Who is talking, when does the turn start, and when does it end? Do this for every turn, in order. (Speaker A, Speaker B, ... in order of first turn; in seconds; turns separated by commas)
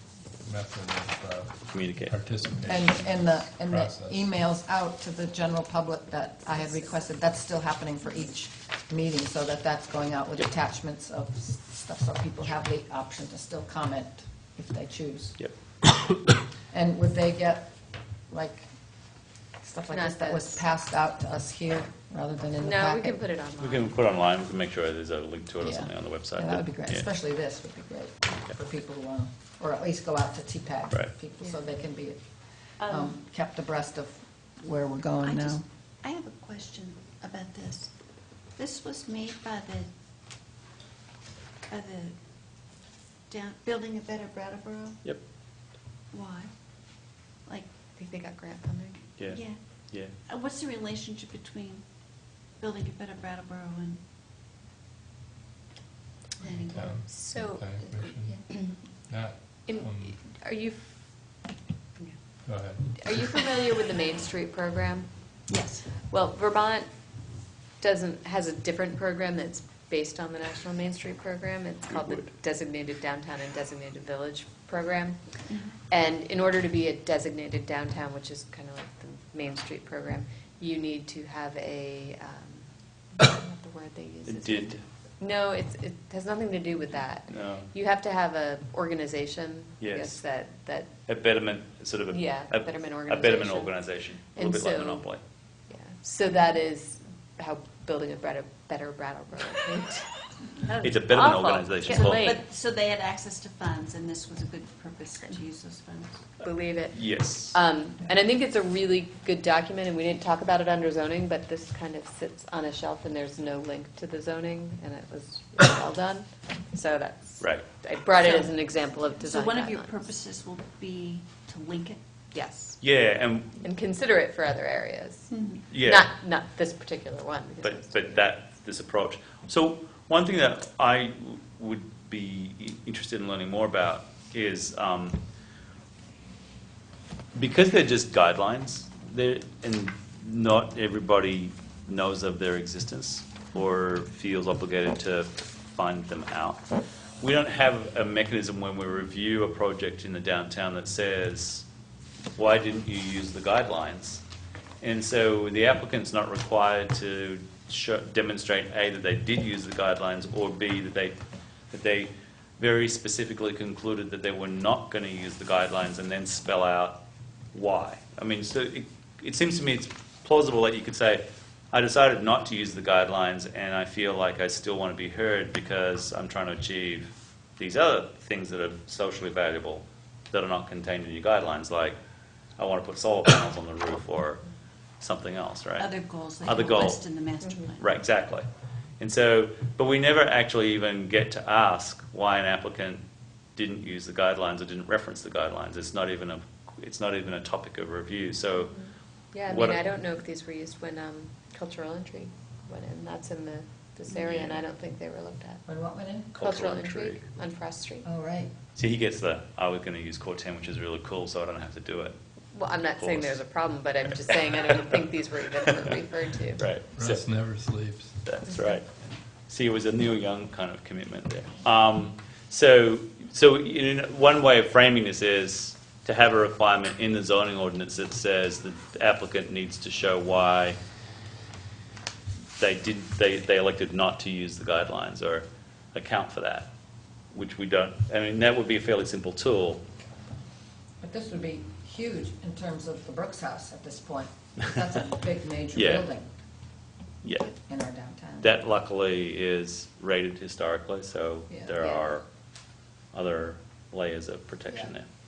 Speaker A: 0.4-4.3, Speaker B: 1.7-2.2, Speaker C: 2.7-15.4, Speaker C: 16.7-17.7, Speaker C: 18.3-18.7, Speaker C: 19.6-23.2, Speaker D: 19.9-20.6, Speaker D: 22.6-23.9, Speaker B: 23.6-27.1, Speaker C: 25.6-32.2, Speaker C: 32.8-35.6, Speaker E: 32.8-33.1, Speaker E: 35.2-37.9, Speaker E: 38.6-39.9, Speaker E: 41.7-42.2, Speaker E: 43.3-45.1, Speaker E: 46.1-46.5, Speaker D: 48.0-49.0, Speaker B: 49.2-50.1, Speaker E: 49.3-49.6, Speaker E: 50.3-51.9, Speaker E: 52.6-54.0, Speaker E: 56.4-57.4, Speaker A: 56.7-58.4, Speaker D: 57.1-57.6, Speaker E: 58.3-58.7, Speaker A: 59.1-60.2, Speaker D: 59.7-61.1, Speaker A: 62.5-62.9, Speaker D: 62.9-65.1, Speaker E: 65.5-65.9, Speaker D: 66.0-66.9, Speaker D: 67.8-75.2, Speaker B: 71.9-72.3, Speaker E: 75.5-75.7, Speaker D: 75.9-90.9, Speaker B: 84.3-84.8, Speaker B: 87.3-87.7, Speaker B: 89.8-90.2, Speaker B: 91.1-95.2, Speaker D: 92.1-95.1, Speaker D: 95.7-100.3, Speaker E: 100.6-101.1, Speaker B: 100.8-102.3, Speaker D: 101.0-102.4, Speaker E: 101.8-106.3, Speaker D: 106.4-120.0, Speaker B: 106.9-107.6, Speaker B: 117.4-117.7, Speaker E: 118.2-118.5, Speaker E: 119.2-122.0, Speaker D: 122.3-122.8, Speaker B: 122.8-123.6, Speaker D: 123.6-128.2, Speaker E: 125.3-125.6, Speaker B: 125.7-126.1, Speaker B: 127.6-135.2, Speaker B: 137.3-146.7, Speaker B: 147.2-151.7, Speaker B: 152.4-154.2, Speaker B: 154.8-161.2, Speaker B: 161.7-167.0, Speaker B: 167.5-182.0, Speaker B: 182.6-184.4, Speaker B: 185.0-187.1, Speaker E: 185.8-187.8, Speaker B: 187.8-188.5, Speaker B: 189.0-193.0, Speaker B: 193.6-198.7, Speaker D: 198.6-205.6, Speaker B: 199.5-199.9, Speaker B: 204.1-204.6, Speaker C: 205.7-206.3, Speaker B: 206.3-207.2, Speaker D: 206.4-208.1, Speaker C: 208.0-208.5, Speaker B: 208.8-212.2, Speaker D: 212.5-216.7, Speaker B: 213.0-213.4, Speaker B: 214.1-215.0, Speaker B: 215.7-216.0, Speaker B: 216.6-217.3, Speaker A: 216.9-218.2, Speaker B: 218.2-218.9, Speaker B: 219.5-230.8, Speaker B: 232.6-236.7, Speaker B: 237.3-239.8, Speaker C: 241.0-246.3, Speaker B: 245.7-246.1, Speaker B: 247.2-247.5, Speaker C: 247.4-248.6, Speaker B: 248.4-252.3, Speaker C: 251.5-252.0, Speaker B: 253.1-255.1, Speaker C: 254.7-254.9